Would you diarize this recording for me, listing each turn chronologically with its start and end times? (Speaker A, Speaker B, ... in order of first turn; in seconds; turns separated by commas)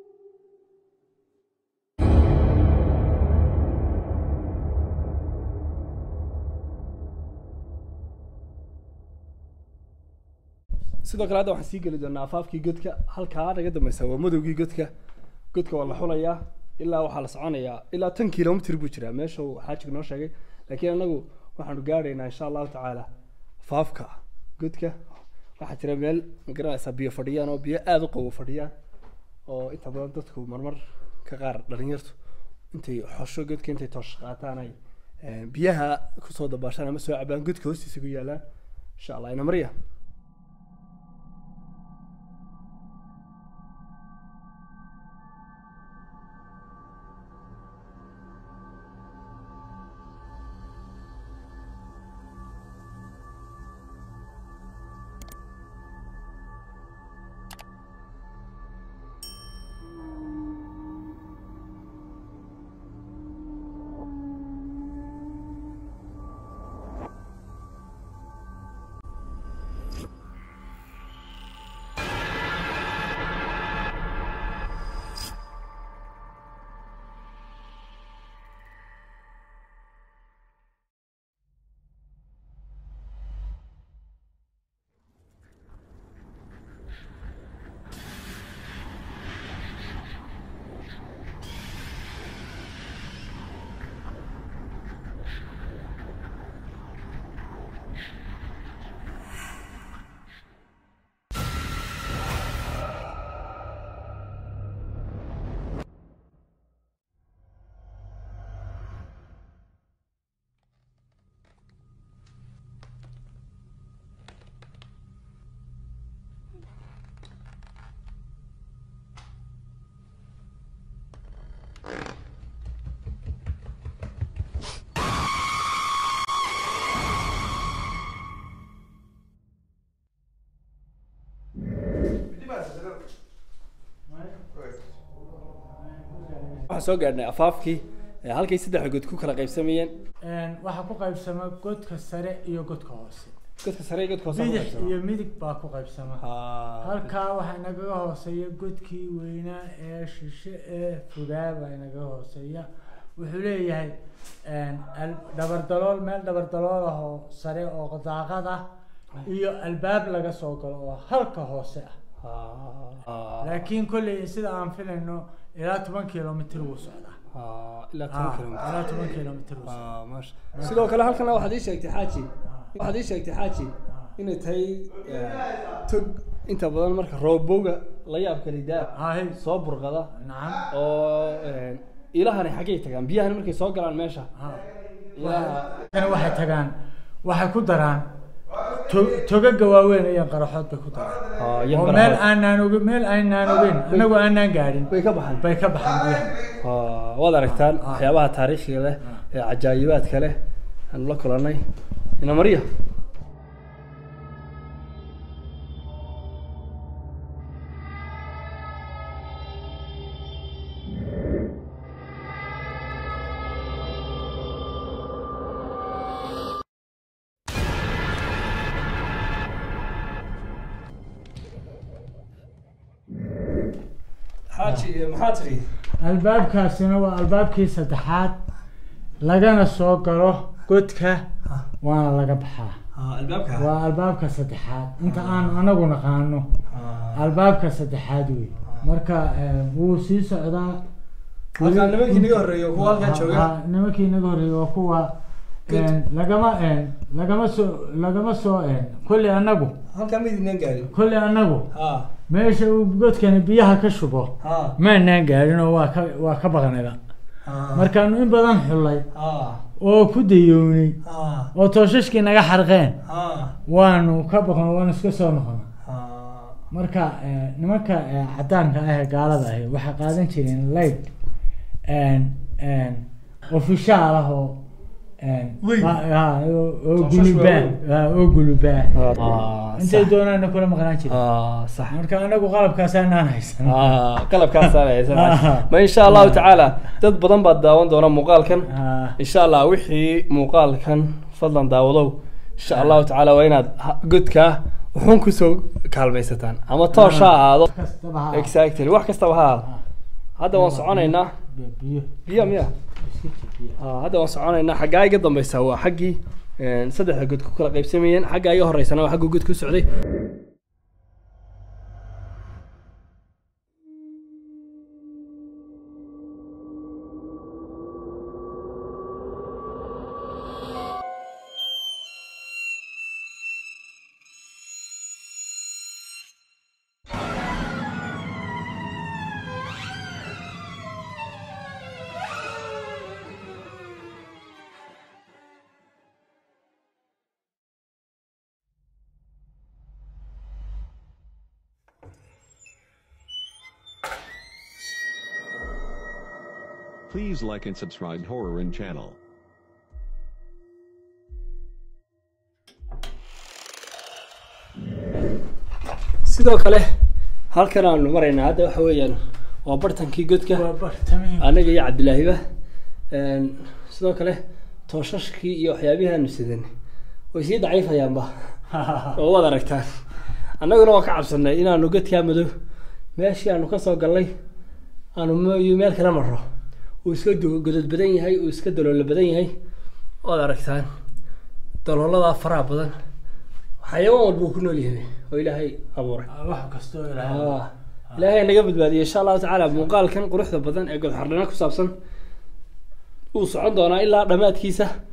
Speaker A: 11.0-14.9, Speaker A: 15.5-23.1, Speaker A: 23.6-25.0, Speaker A: 25.6-28.7, Speaker A: 29.5-32.1, Speaker A: 32.7-38.4, Speaker A: 39.0-39.7, Speaker B: 134.1-134.4, Speaker B: 135.9-136.6, Speaker A: 136.7-139.9, Speaker B: 140.2-143.3, Speaker A: 143.6-144.9, Speaker B: 144.3-146.2, Speaker A: 146.2-147.1, Speaker B: 146.8-158.7, Speaker B: 159.2-161.9, Speaker A: 162.2-163.6, Speaker B: 163.4-167.2, Speaker A: 167.3-168.8, Speaker B: 168.1-169.8, Speaker A: 169.6-180.1, Speaker B: 172.4-172.7, Speaker B: 173.9-174.1, Speaker B: 178.9-179.4, Speaker B: 180.1-180.7, Speaker A: 180.7-184.3, Speaker B: 184.4-184.7, Speaker A: 185.1-185.7, Speaker B: 185.2-188.1, Speaker B: 188.7-196.4, Speaker A: 191.3-192.2, Speaker A: 193.9-194.1, Speaker A: 194.9-195.4, Speaker A: 196.6-200.4, Speaker B: 197.5-198.1, Speaker A: 200.9-201.6, Speaker A: 202.2-202.7, Speaker A: 224.5-225.7, Speaker B: 226.0-228.4, Speaker B: 229.2-231.2, Speaker B: 231.8-232.8, Speaker A: 232.9-233.7, Speaker B: 233.6-236.5, Speaker A: 235.0-235.5, Speaker A: 236.7-237.3, Speaker B: 237.1-240.8, Speaker A: 241.6-243.5, Speaker B: 241.6-245.1, Speaker B: 245.7-249.8, Speaker A: 249.9-250.9, Speaker B: 250.9-251.7, Speaker A: 251.7-252.1, Speaker B: 252.3-257.0, Speaker A: 254.4-254.7, Speaker A: 257.4-257.9, Speaker B: 257.7-259.1, Speaker A: 259.1-259.6, Speaker B: 259.8-261.0, Speaker A: 261.0-261.5, Speaker B: 261.5-263.0, Speaker A: 263.1-263.5, Speaker B: 263.7-265.7, Speaker A: 265.8-266.6, Speaker B: 266.7-271.1, Speaker B: 271.9-274.6, Speaker B: 275.2-278.9, Speaker A: 275.6-275.9, Speaker A: 277.0-277.8, Speaker A: 278.9-280.1, Speaker B: 279.8-281.2, Speaker A: 281.1-281.9, Speaker B: 281.9-286.5, Speaker A: 283.6-297.7, Speaker B: 288.7-289.1, Speaker B: 296.9-298.5, Speaker A: 298.3-299.7, Speaker A: 300.4-301.3, Speaker B: 300.5-303.8, Speaker A: 302.2-302.7, Speaker A: 303.8-309.9, Speaker C: 347.1-349.2, Speaker A: 356.2-356.9, Speaker A: 357.5-360.6, Speaker B: 360.5-361.5, Speaker A: 361.4-362.4, Speaker A: 363.1-366.7, Speaker A: 367.3-368.3, Speaker B: 368.7-369.2, Speaker A: 369.1-369.9, Speaker A: 370.6-372.5, Speaker A: 373.1-374.3, Speaker A: 375.1-376.4, Speaker A: 377.0-379.5, Speaker A: 380.2-380.9, Speaker A: 381.8-382.9, Speaker A: 383.8-386.3, Speaker B: 386.3-387.6, Speaker A: 387.2-391.9, Speaker A: 393.3-394.9